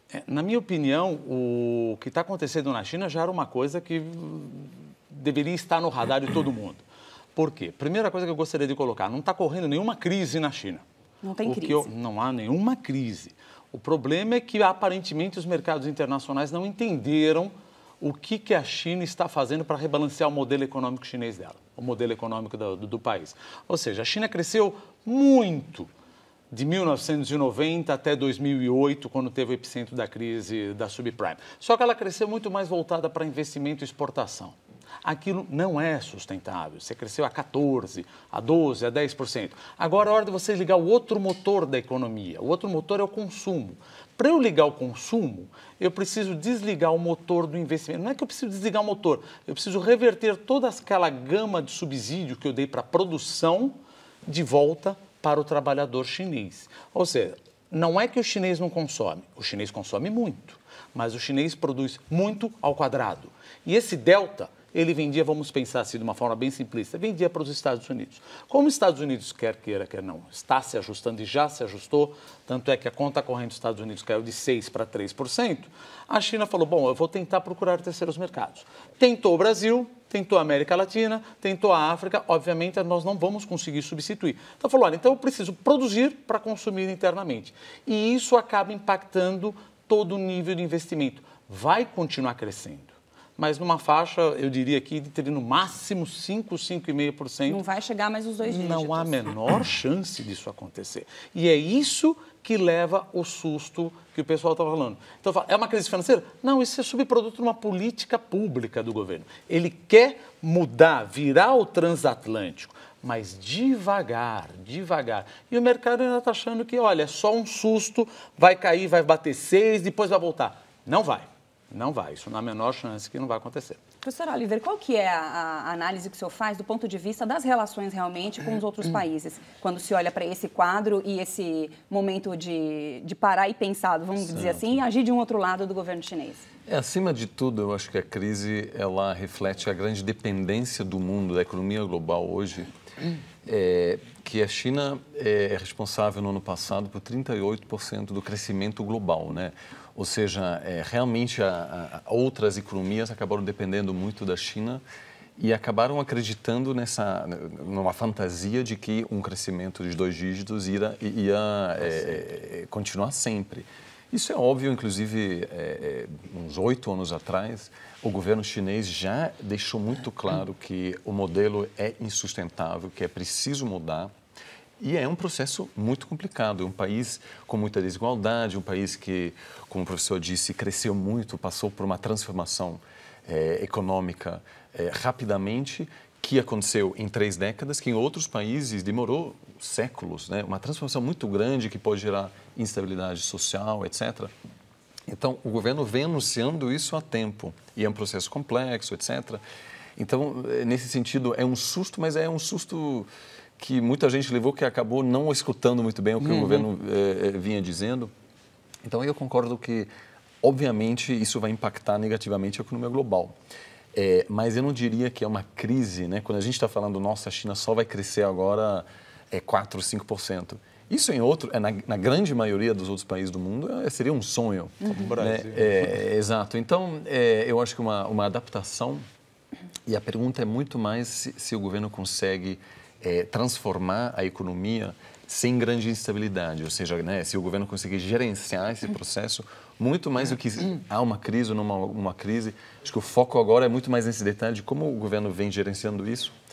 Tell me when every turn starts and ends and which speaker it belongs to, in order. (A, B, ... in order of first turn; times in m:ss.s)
0:00.1-0:06.8 A
0:07.3-0:10.8 A
0:11.2-0:11.9 B
0:11.4-0:25.9 A
0:26.5-1:37.6 A
1:37.5-1:39.2 B
1:38.4-2:03.8 A
2:04.0-2:16.5 B
2:14.3-2:14.7 C
2:16.7-2:22.7 C
2:23.4-2:34.8 C
2:35.4-2:54.1 C
2:54.8-3:14.3 C
3:15.1-3:19.4 C
3:20.0-3:23.1 C
3:23.6-3:28.1 C
3:26.2-3:26.6 A
3:28.8-3:29.9 C
3:30.4-3:33.3 C
3:33.9-3:49.0 C
3:44.9-3:45.8 A
3:49.9-4:06.3 C